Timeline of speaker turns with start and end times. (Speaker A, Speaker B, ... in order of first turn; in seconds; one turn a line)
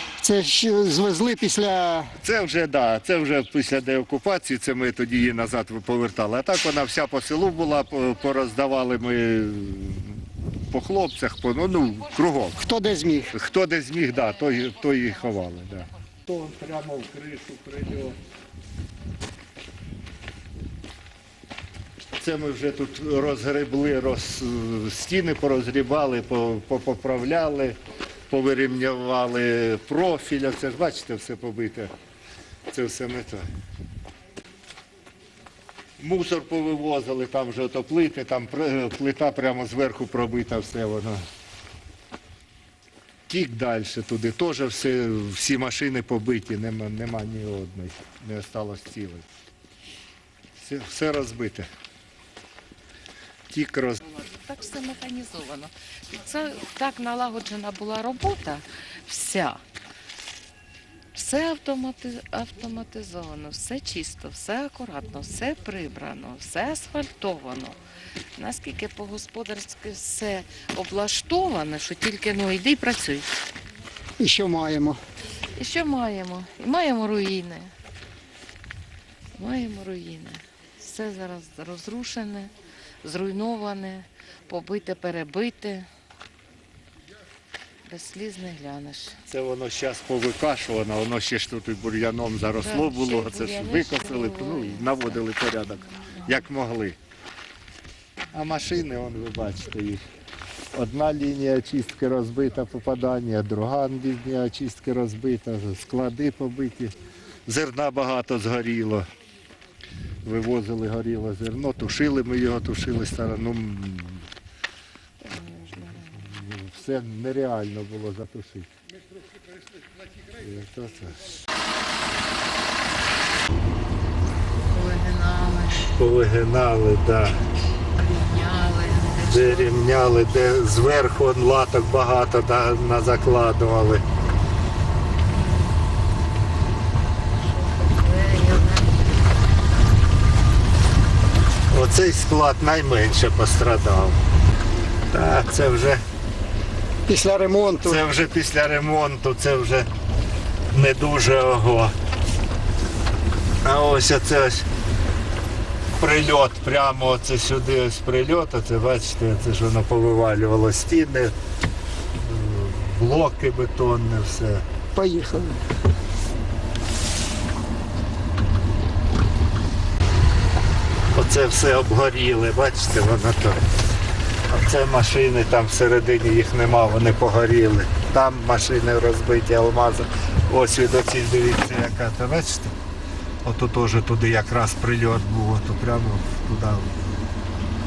Speaker A: 0.2-2.1
Speaker B: 2.2-12.7
Speaker C: 12.0-12.6
Speaker A: 12.6-13.3
Speaker B: 13.2-18.2
Speaker C: 14.1-16.0
Speaker B: 22.2-27.8
Speaker B: 28.3-31.9
Speaker B: 32.7-33.5
Speaker B: 36.0-41.2
Speaker B: 43.3-49.2
Speaker B: 50.6-51.7
Speaker B: 53.5-54.0
Speaker C: 54.0-59.6
Speaker C: 61.1-67.8
Speaker C: 68.4-73.3
Speaker A: 74.2-75.0
Speaker C: 75.6-77.7
Speaker C: 79.4-82.5
Speaker C: 83.0-85.9
Speaker C: 87.9-89.2
Speaker B: 89.3-97.0
Speaker C: 92.6-95.2
Speaker C: 96.0-96.4
Speaker B: 98.3-100.0
Speaker B: 100.7-107.0
Speaker B: 107.5-109.1
Speaker B: 110.2-114.3
Speaker C: 115.2-116.4
Speaker B: 116.2-118.7
Speaker B: 120.4-121.3
Speaker C: 124.7-125.9
Speaker B: 125.9-127.4
Speaker C: 128.0-129.8
Speaker B: 129.3-134.0
Speaker C: 135.2-135.8
Speaker C: 137.3-139.2
Speaker B: 141.7-144.2
Speaker B: 145.1-146.0
Speaker A: 147.1-148.0
Speaker B: 147.8-149.9
Speaker B: 150.7-151.9
Speaker B: 153.6-154.7
Speaker B: 156.0-161.3
Speaker B: 162.2-164.7
Speaker A: 164.9-165.6
Speaker B: 171.1-173.6
Speaker B: 174.5-182.8
Speaker B: 183.4-186.9